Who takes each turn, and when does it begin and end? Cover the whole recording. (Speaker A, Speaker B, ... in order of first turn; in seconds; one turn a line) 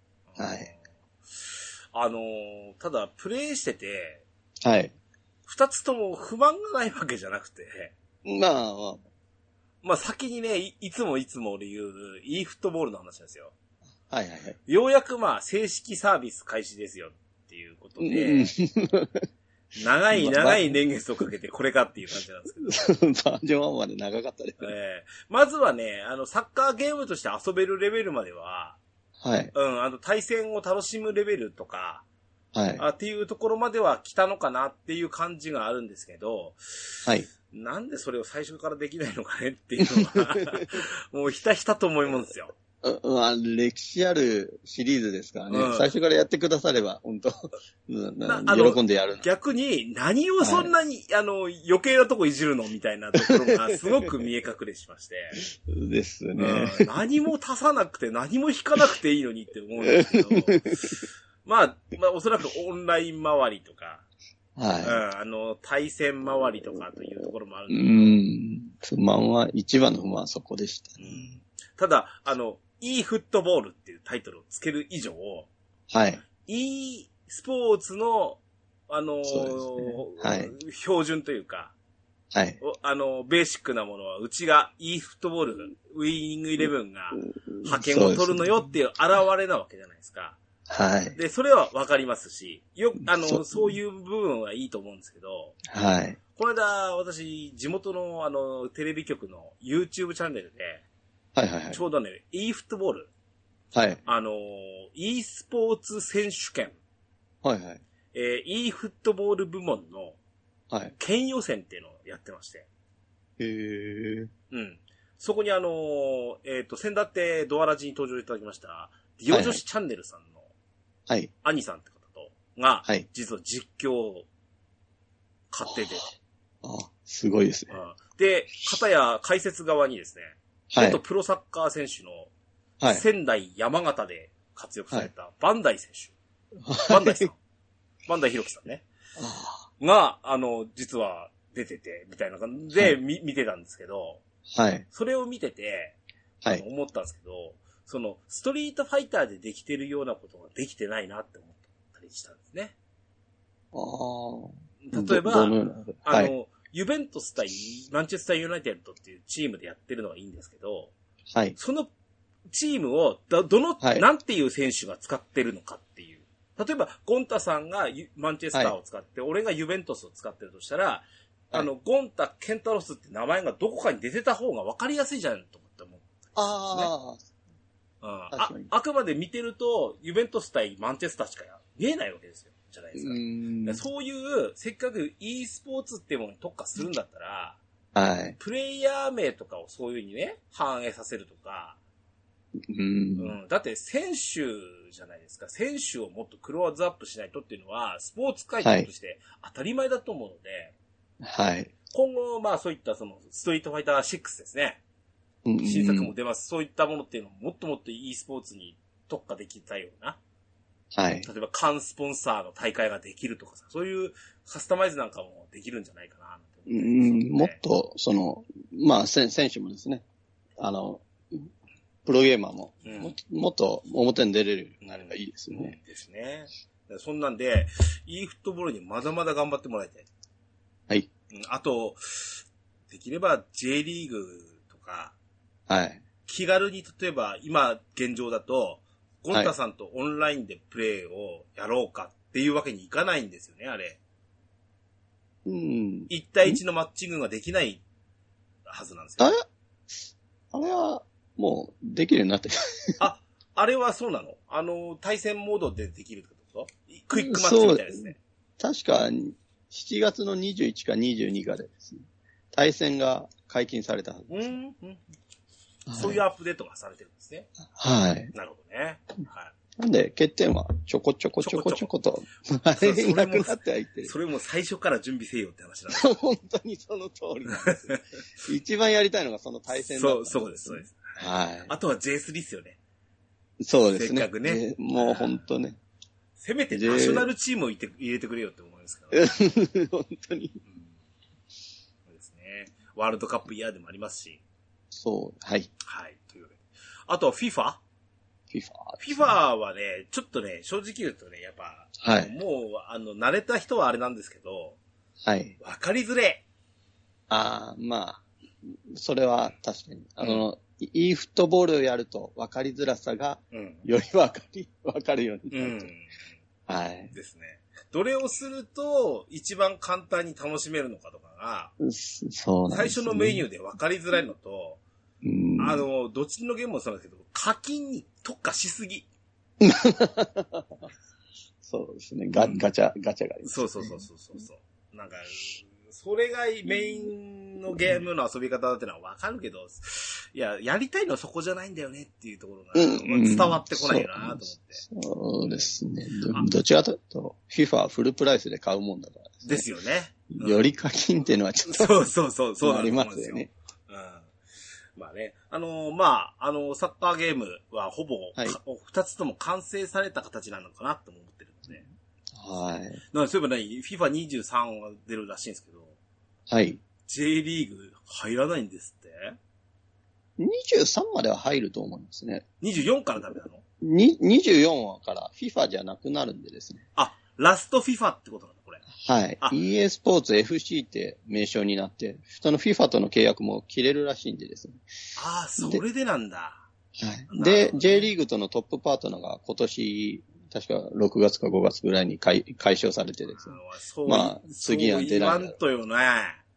Speaker A: 0.3-0.8
Speaker B: 0.4-0.7
Speaker A: 1.4-4.2
Speaker B: 4.6-4.9
Speaker A: 5.5-7.9
Speaker B: 8.2-9.0
Speaker A: 9.8-13.5
Speaker B: 14.1-14.6
Speaker A: 14.7-18.5
Speaker B: 18.0-19.3
Speaker A: 19.8-22.8
Speaker B: 20.1-20.8
Speaker B: 22.6-24.7
Speaker A: 24.6-28.8
Speaker B: 29.2-29.5
Speaker A: 29.5-32.0
Speaker B: 32.5-32.8
Speaker A: 32.8-42.5
Speaker B: 40.5-40.7
Speaker B: 42.8-49.2
Speaker A: 45.5-45.9
Speaker A: 48.2-55.4
Speaker B: 50.4-50.7
Speaker B: 53.2-53.7
Speaker B: 55.4-56.9
Speaker A: 56.4-60.9
Speaker B: 60.3-60.8
Speaker A: 61.4-64.0
Speaker B: 64.6-65.0
Speaker A: 64.8-68.2
Speaker B: 67.7-71.3
Speaker A: 71.0-75.5
Speaker B: 75.9-76.2
Speaker A: 76.3-81.7
Speaker B: 79.2-80.5
Speaker B: 82.3-82.6
Speaker A: 82.6-90.4
Speaker B: 87.2-88.6
Speaker B: 90.7-91.2
Speaker A: 91.2-95.6
Speaker B: 93.1-93.7
Speaker B: 95.7-96.2
Speaker A: 96.3-100.8
Speaker B: 101.3-101.8
Speaker A: 101.7-103.1
Speaker B: 103.7-104.0
Speaker A: 104.0-106.8
Speaker B: 107.4-107.8
Speaker A: 108.1-110.2
Speaker A: 111.0-112.7
Speaker B: 113.4-114.3
Speaker A: 114.5-120.4
Speaker B: 119.3-119.6
Speaker A: 121.4-124.2
Speaker A: 125.5-126.0
Speaker B: 125.7-126.0
Speaker B: 126.6-127.7
Speaker A: 127.7-132.3
Speaker B: 130.7-131.0
Speaker A: 132.9-136.1
Speaker B: 136.6-137.3
Speaker A: 136.8-137.4
Speaker A: 138.1-138.8
Speaker B: 139.2-139.7
Speaker A: 139.8-144.2
Speaker B: 144.5-144.8
Speaker A: 144.9-145.9
Speaker A: 146.5-152.7
Speaker B: 153.7-156.3
Speaker A: 154.8-160.9
Speaker A: 161.6-161.9
Speaker A: 162.5-176.9
Speaker B: 163.8-164.1
Speaker B: 176.3-177.2
Speaker A: 178.0-187.6
Speaker B: 178.3-178.7
Speaker B: 182.9-183.8
Speaker B: 187.9-188.4
Speaker A: 188.4-191.8
Speaker B: 192.6-193.3
Speaker A: 193.2-200.7
Speaker B: 198.6-198.9
Speaker B: 201.2-201.7
Speaker A: 201.9-204.8
Speaker B: 205.4-206.1
Speaker A: 205.6-210.2
Speaker B: 210.9-211.3
Speaker A: 211.2-217.6
Speaker B: 216.7-220.0
Speaker B: 220.6-221.5
Speaker B: 222.1-225.7
Speaker A: 222.8-223.1
Speaker A: 224.8-230.1
Speaker A: 231.3-235.1
Speaker B: 235.7-236.0
Speaker A: 236.3-244.0
Speaker B: 245.4-246.6
Speaker A: 246.1-247.8
Speaker A: 248.7-249.3
Speaker B: 249.2-249.4
Speaker B: 250.5-253.0
Speaker A: 253.0-258.2
Speaker B: 257.1-264.5
Speaker A: 264.3-265.0
Speaker B: 265.9-266.2
Speaker A: 265.9-267.5
Speaker B: 267.7-268.3
Speaker A: 268.3-269.5
Speaker B: 269.8-274.1
Speaker A: 271.4-271.9
Speaker A: 272.7-276.1
Speaker B: 275.9-277.9
Speaker A: 277.6-278.0
Speaker B: 278.4-281.7
Speaker A: 279.7-282.8
Speaker B: 283.6-285.8
Speaker A: 283.9-285.4
Speaker A: 286.4-289.6
Speaker B: 286.7-287.3
Speaker B: 289.1-290.6
Speaker A: 292.1-294.4
Speaker B: 294.9-295.7
Speaker A: 295.8-297.8
Speaker B: 298.5-299.3
Speaker A: 299.0-304.8
Speaker B: 302.0-302.3
Speaker B: 305.2-305.6
Speaker A: 305.6-306.4
Speaker B: 307.3-315.9
Speaker A: 313.5-313.8
Speaker A: 315.5-316.1
Speaker B: 316.7-317.1
Speaker A: 317.1-321.7
Speaker B: 321.8-323.4
Speaker A: 322.7-324.8
Speaker B: 325.2-325.8
Speaker A: 325.6-329.1
Speaker B: 329.6-330.6
Speaker B: 331.6-334.0
Speaker A: 332.4-332.6
Speaker A: 333.4-344.8
Speaker B: 342.7-349.6
Speaker A: 349.4-350.7
Speaker B: 350.3-352.1
Speaker A: 351.7-354.3
Speaker B: 352.6-353.5
Speaker A: 354.9-361.8
Speaker B: 362.3-363.0
Speaker A: 363.1-365.9
Speaker B: 366.5-366.8
Speaker A: 367.1-369.4
Speaker B: 370.4-372.4
Speaker A: 372.6-373.6
Speaker B: 373.8-376.9
Speaker A: 376.9-378.8
Speaker B: 379.0-384.8
Speaker A: 385.1-386.6
Speaker B: 386.9-395.5
Speaker A: 387.3-388.1
Speaker A: 393.3-396.4